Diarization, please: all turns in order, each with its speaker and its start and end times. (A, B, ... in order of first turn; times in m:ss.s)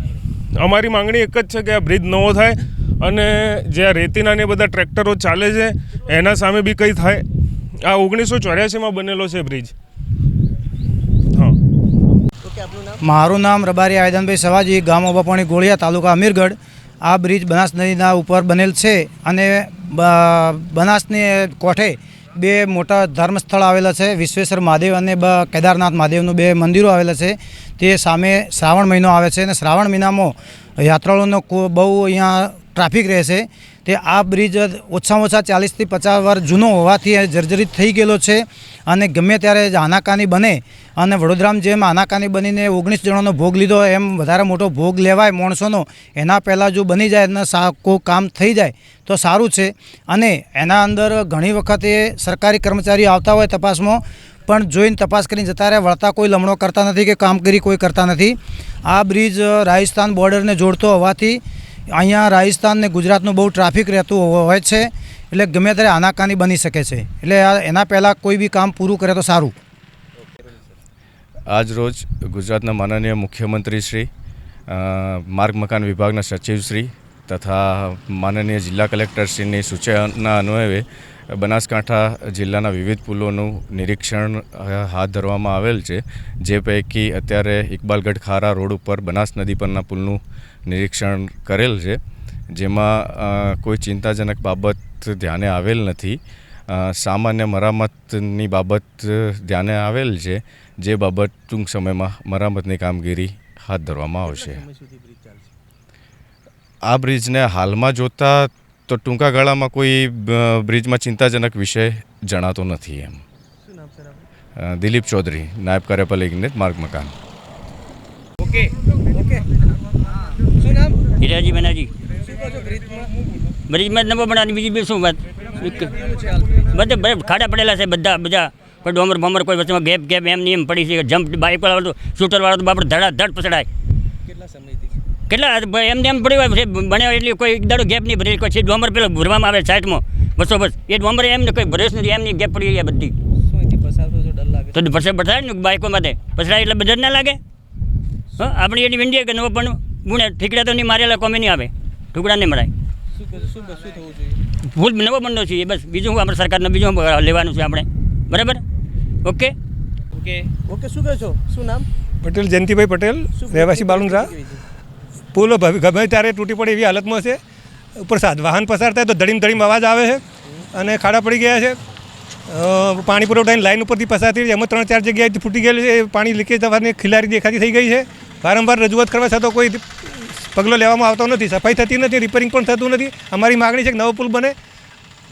0:00.6-0:07.2 A
0:07.8-0:09.7 A
0:12.4-0:13.0 B
0:13.0-1:01.4 C
1:01.9-1:09.5 C
1:11.5-1:14.1 D
1:14.7-1:32.0 D
1:32.5-1:44.6 D
1:44.2-1:45.5 B
1:46.9-1:53.2 D
1:53.6-1:54.3 B
1:54.6-1:57.1 D
1:59.1-1:59.4 B
2:00.6-2:01.0 B
2:01.1-2:01.9 E
2:02.2-2:03.1 B
2:03.7-2:05.9 E
2:05.5-2:06.9 B
2:06.7-2:13.7 E
2:14.3-2:15.0 B
2:15.3-2:23.1 E
2:23.4-2:25.0 B
2:24.7-2:27.4 E
2:28.4-2:32.7 E
2:33.1-2:34.4 B
2:34.7-2:38.6 E
2:39.2-2:39.5 E
2:40.6-2:41.9 B
2:42.2-2:44.3 F
2:43.3-2:44.6 B
2:45.3-2:47.4 F
2:48.0-2:50.2 F
2:50.7-2:51.8 F
2:52.5-3:04.5 F